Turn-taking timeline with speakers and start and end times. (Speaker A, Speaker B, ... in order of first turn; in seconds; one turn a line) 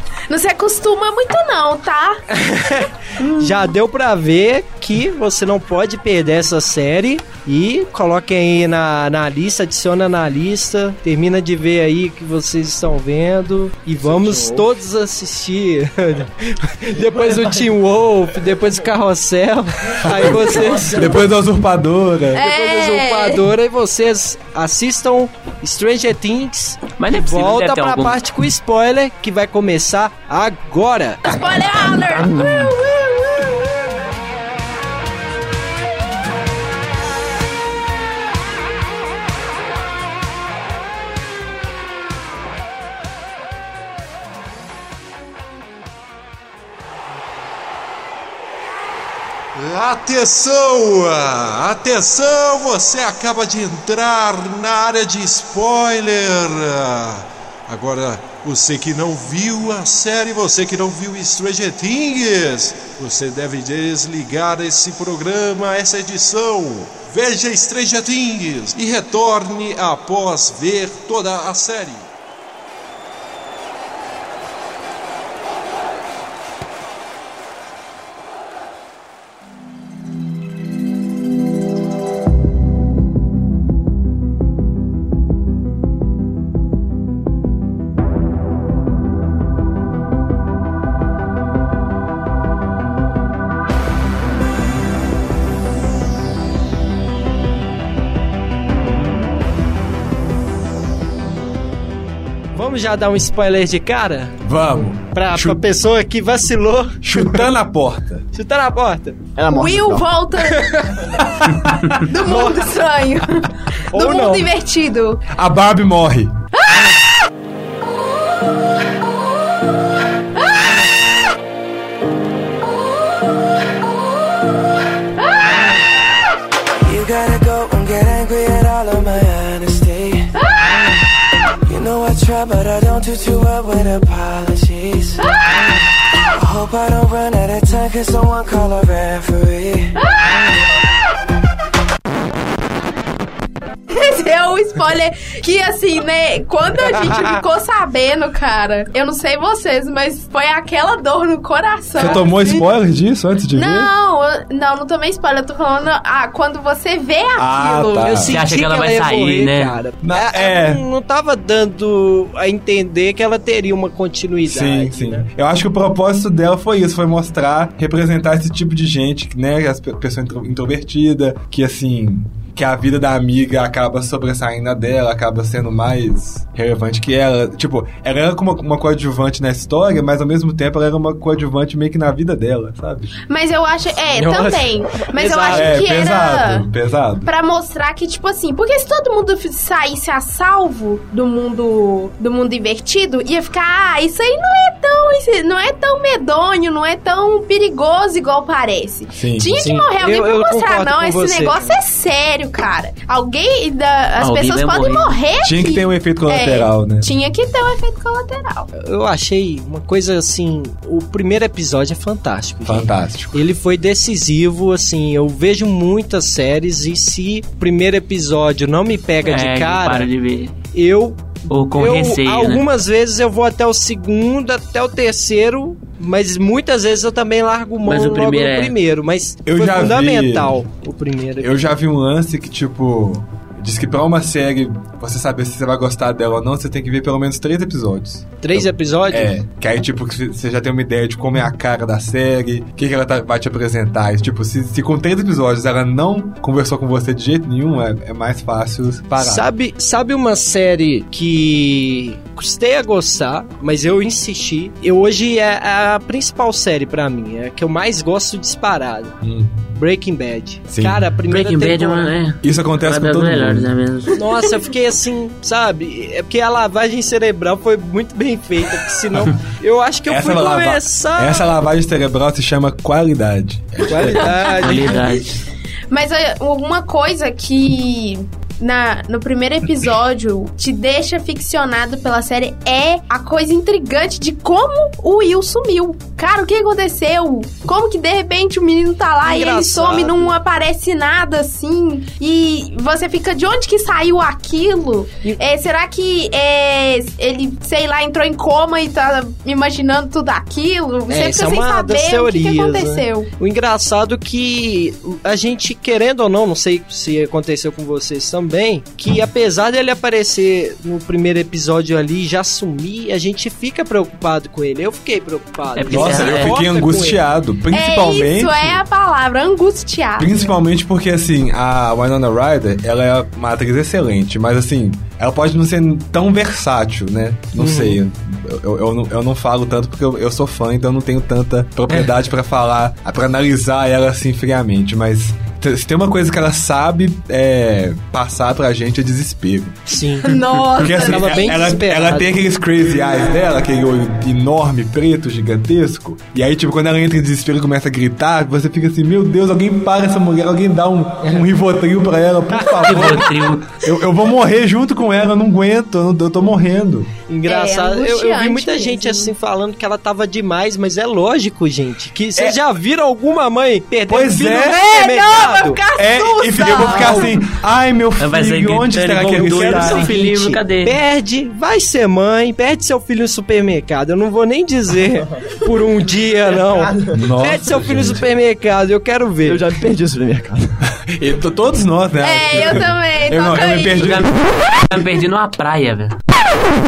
Speaker A: 0.3-2.2
Speaker B: 2.3-21.2
Speaker A: 3.2-3.5
Speaker C: 14.0-14.7
Speaker C: 17.0-17.7
Speaker D: 20.0-22.4
Speaker A: 22.3-23.4
Speaker B: 22.4-31.4
Speaker E: 27.0-28.2
Speaker A: 31.3-33.6
Speaker E: 32.2-32.5
Speaker F: 49.6-72.0
Speaker B: 102.5-104.4
Speaker D: 104.5-105.7
Speaker B: 105.1-107.5
Speaker D: 107.0-108.2
Speaker B: 108.3-109.2
Speaker C: 109.4-110.1
Speaker A: 109.5-110.8
Speaker B: 110.5-111.0
Speaker A: 112.0-115.2
Speaker B: 113.9-114.5
Speaker D: 115.3-116.4
Speaker G: 126.8-130.3
Speaker G: 131.7-135.3
Speaker G: 136.3-140.0
Speaker A: 140.1-140.3
Speaker A: 143.9-152.6
Speaker D: 152.0-153.9
Speaker A: 153.6-158.2
Speaker D: 157.4-158.4
Speaker B: 158.0-165.3
Speaker E: 158.3-159.8
Speaker D: 160.0-160.8
Speaker D: 164.5-183.1
Speaker A: 183.3-186.7
Speaker B: 184.1-185.9
Speaker D: 185.5-187.3
Speaker A: 187.2-208.7
Speaker D: 199.1-199.7
Speaker B: 199.6-201.8
Speaker E: 204.2-205.2
Speaker D: 205.4-207.1
Speaker B: 208.7-220.1
Speaker D: 212.7-213.4
Speaker E: 219.2-220.5
Speaker B: 220.7-231.6
Speaker E: 221.5-222.6
Speaker E: 227.9-228.7
Speaker D: 229.4-230.7
Speaker D: 231.4-249.5
Speaker B: 238.4-239.3
Speaker B: 249.2-259.2
Speaker D: 259.2-259.7
Speaker B: 259.8-262.1
Speaker D: 260.7-261.1
Speaker E: 261.3-264.2
Speaker D: 262.4-263.7
Speaker B: 264.1-271.5
Speaker D: 270.1-274.3
Speaker B: 273.9-275.0
Speaker A: 274.2-275.2
Speaker E: 274.6-275.4
Speaker A: 275.9-303.3
Speaker B: 289.2-290.4
Speaker B: 301.1-317.2
Speaker E: 315.8-316.5
Speaker D: 315.9-318.8
Speaker A: 317.7-320.4
Speaker D: 320.2-339.8
Speaker B: 327.6-328.0
Speaker B: 339.9-342.4
Speaker A: 340.2-341.8
Speaker D: 340.7-357.1
Speaker B: 352.6-353.0
Speaker E: 352.8-353.8
Speaker B: 357.3-365.8
Speaker A: 357.5-359.3
Speaker D: 364.1-364.9
Speaker A: 364.6-367.4
Speaker D: 365.9-370.1
Speaker B: 366.8-367.3
Speaker E: 368.2-371.0
Speaker B: 369.5-379.6
Speaker C: 376.6-377.2
Speaker D: 377.1-378.3
Speaker C: 379.4-380.7
Speaker D: 381.1-384.4
Speaker A: 382.2-384.1
Speaker E: 384.0-386.2